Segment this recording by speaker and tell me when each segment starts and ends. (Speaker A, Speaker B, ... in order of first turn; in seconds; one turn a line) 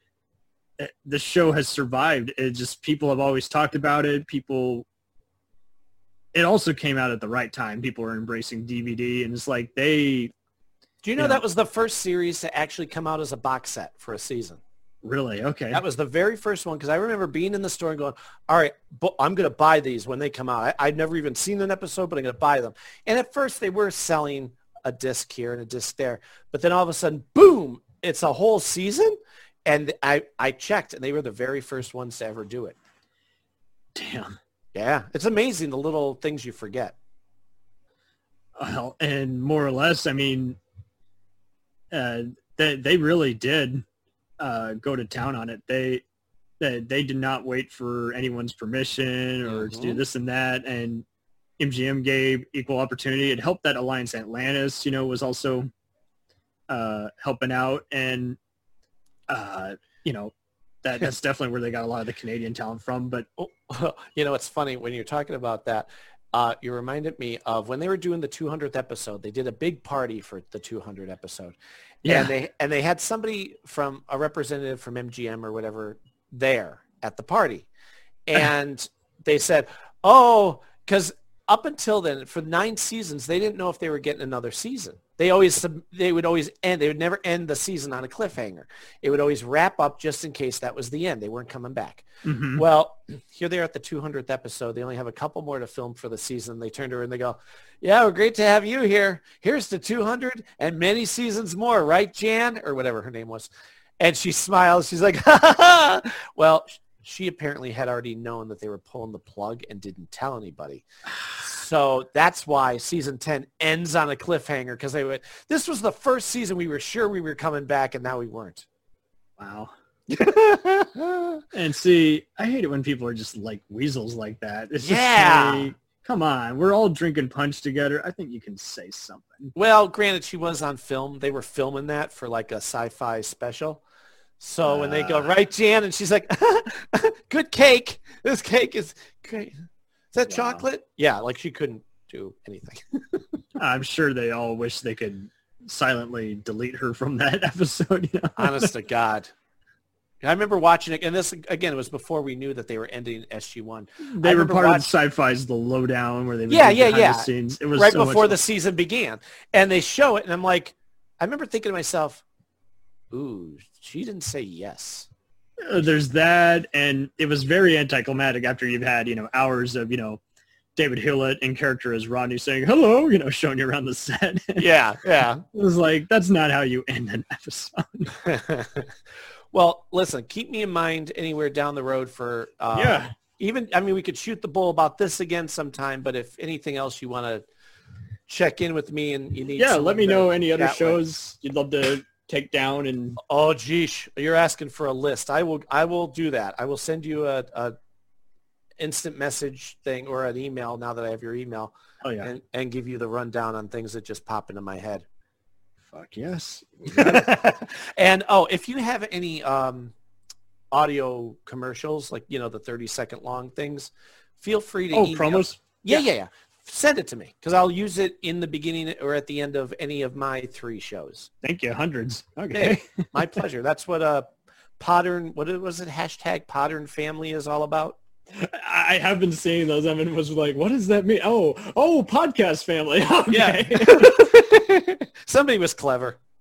Speaker A: 0.8-4.8
Speaker A: 6.3-10.3
Speaker B: 11.0-14.6
Speaker A: 11.2-11.4
Speaker A: 15.0-15.8
Speaker B: 15.7-32.8
Speaker A: 34.0-34.4
Speaker B: 34.7-36.9
Speaker A: 38.6-40.6
Speaker A: 41.9-43.8
Speaker A: 44.4-46.0
Speaker A: 46.6-51.0
Speaker B: 49.5-50.0
Speaker A: 51.6-55.7
Speaker A: 56.7-58.4
Speaker A: 59.3-63.3
Speaker B: 63.4-77.7
Speaker A: 72.0-72.3
Speaker B: 78.3-110.8
Speaker A: 92.2-92.6
Speaker B: 111.4-118.7
Speaker A: 119.4-120.4
Speaker B: 120.1-121.4
Speaker A: 121.5-129.5
Speaker B: 124.8-125.7
Speaker B: 129.6-133.8
Speaker B: 134.4-139.6
Speaker A: 134.6-135.3
Speaker B: 140.1-143.2
Speaker A: 140.2-140.6
Speaker A: 143.6-148.7
Speaker B: 148.4-149.3
Speaker B: 150.2-154.9
Speaker A: 154.2-158.4
Speaker B: 156.5-162.2
Speaker B: 163.1-165.1
Speaker A: 165.6-170.2
Speaker A: 170.8-174.7
Speaker B: 174.6-175.4
Speaker A: 175.5-178.2
Speaker B: 178.2-178.9
Speaker B: 179.5-187.4
Speaker A: 182.7-183.1
Speaker B: 188.3-191.0
Speaker A: 189.6-193.2
Speaker B: 193.2-197.7
Speaker B: 198.8-205.0
Speaker A: 202.0-202.3
Speaker A: 205.9-207.3
Speaker B: 206.9-209.9
Speaker B: 210.7-221.3
Speaker A: 214.9-216.1
Speaker A: 221.4-223.1
Speaker B: 222.5-228.0
Speaker A: 228.4-234.2
Speaker B: 233.3-236.2